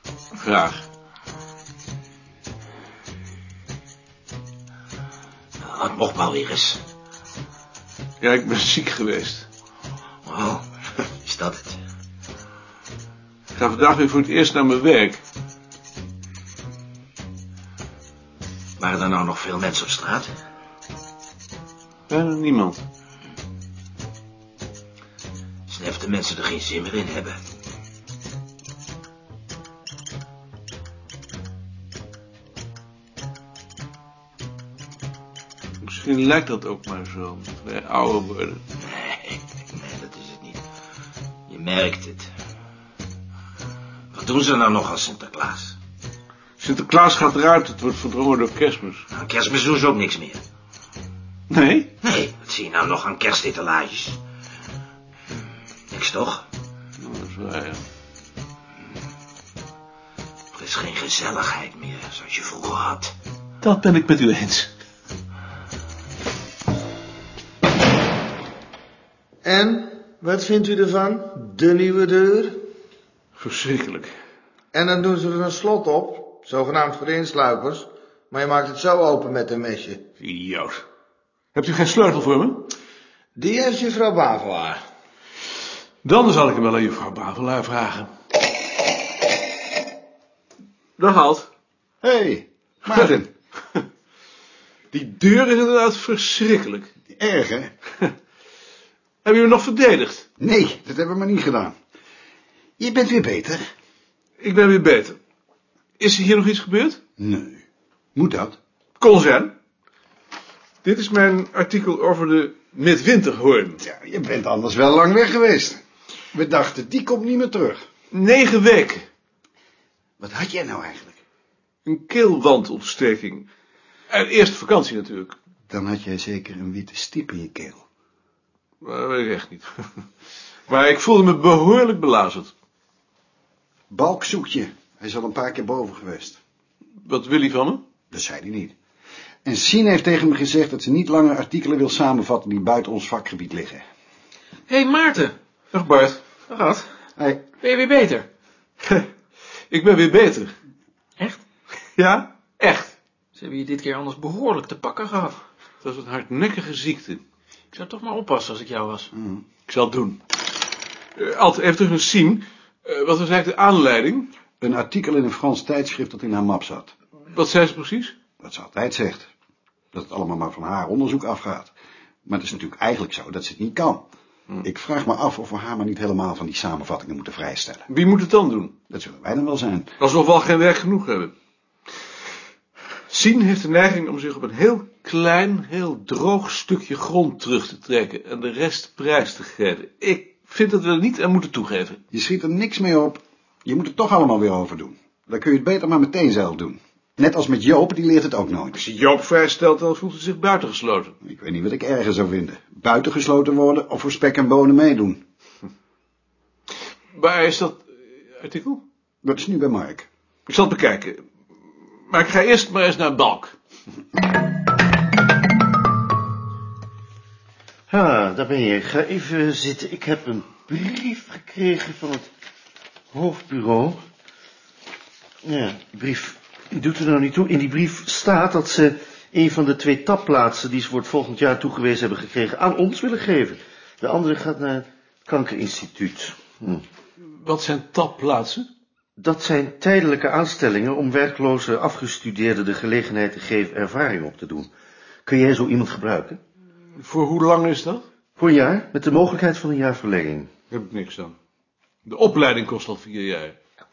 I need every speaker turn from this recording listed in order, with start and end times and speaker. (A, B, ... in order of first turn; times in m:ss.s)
0:00.3-0:00.8 A
0:05.6-0:06.8 B
0:08.2-0:09.5 A
0:10.3-0:10.7 B
0:11.2-0:11.8 B
0:13.6-0:15.2 A
0:18.8-0:20.3 B
0:22.1-0:22.8 A
0:25.7-0:27.4 B
0:35.8-0:38.6 A
0:38.9-0:40.6 B
0:41.5-0:42.3 B
0:44.1-0:45.8 B
0:46.6-0:49.1 A
0:49.1-0:50.4 B
0:51.5-0:52.0 A
0:52.0-0:54.2 B
0:55.9-0:56.4 B
0:57.0-0:57.8 A
1:00.5-1:03.1 B
1:03.6-1:04.7 A
1:09.4-1:12.7 C
1:13.4-1:14.1 A
1:14.7-1:20.0 C
1:20.2-1:20.8 A
1:21.5-1:22.7 A
1:23.4-1:24.8 C
1:26.0-1:28.1 A
1:31.0-1:31.5 A
1:32.0-1:33.3 D
1:34.9-1:36.9 A
1:37.1-1:37.7 D
1:39.2-1:40.2 A
1:40.4-1:41.8 D
1:42.8-1:43.6 D
1:44.4-1:45.2 A
1:46.0-1:47.0 A
1:47.2-1:47.6 D
1:48.2-1:48.6 D
1:49.0-1:49.6 A
1:50.8-1:53.8 A
1:53.8-1:55.8 D
1:56.3-1:57.8 D
1:58.1-1:59.1 A
2:00.2-2:01.2 D
2:01.8-2:03.5 A
2:04.1-2:05.4 A
2:05.7-2:07.8 D
2:08.8-2:09.9 A
2:10.7-2:12.5 A
2:13.9-2:16.4 D
2:17.0-2:17.8 A
2:18.1-2:18.8 D
2:19.4-2:23.8 D
2:24.7-2:25.4 E
2:25.7-2:26.2 A
2:26.5-2:26.9 E
2:27.2-2:27.4 D
2:27.6-2:28.3 E
2:29.7-2:30.5 A
2:32.0-2:33.0 A
2:33.4-2:35.4 E
2:35.8-2:37.2 A
2:37.7-2:39.1 E
2:39.2-2:39.4 D
2:39.7-2:40.2 A
2:41.2-2:44.3 A
2:44.6-2:46.9 D
2:47.2-2:48.2 A
2:48.4-2:49.3 D
2:49.9-2:51.7 D
2:52.2-2:54.1 D
2:54.6-2:57.9 D
2:57.9-2:58.8 A
2:58.9-2:59.9 D
3:00.0-3:01.4 A
3:03.1-3:12.0 A
3:12.1-3:18.8 D
3:18.7-3:21.1 A
3:21.2-3:25.2 D
3:27.1-3:28.8 A
3:29.2-3:30.1 D
3:30.5-3:31.2 A
3:32.1-3:33.6 A
3:37.9-3:42.3 F
3:43.1-3:44.0 F
3:45.4-3:56.8 F
3:57.2-3:58.7 A
3:59.2-4:04.7 F
4:05.2-4:06.4 F
4:07.0-4:08.0 A
4:08.4-4:10.5 F
4:10.7-4:11.4 A
4:12.0-4:13.6 A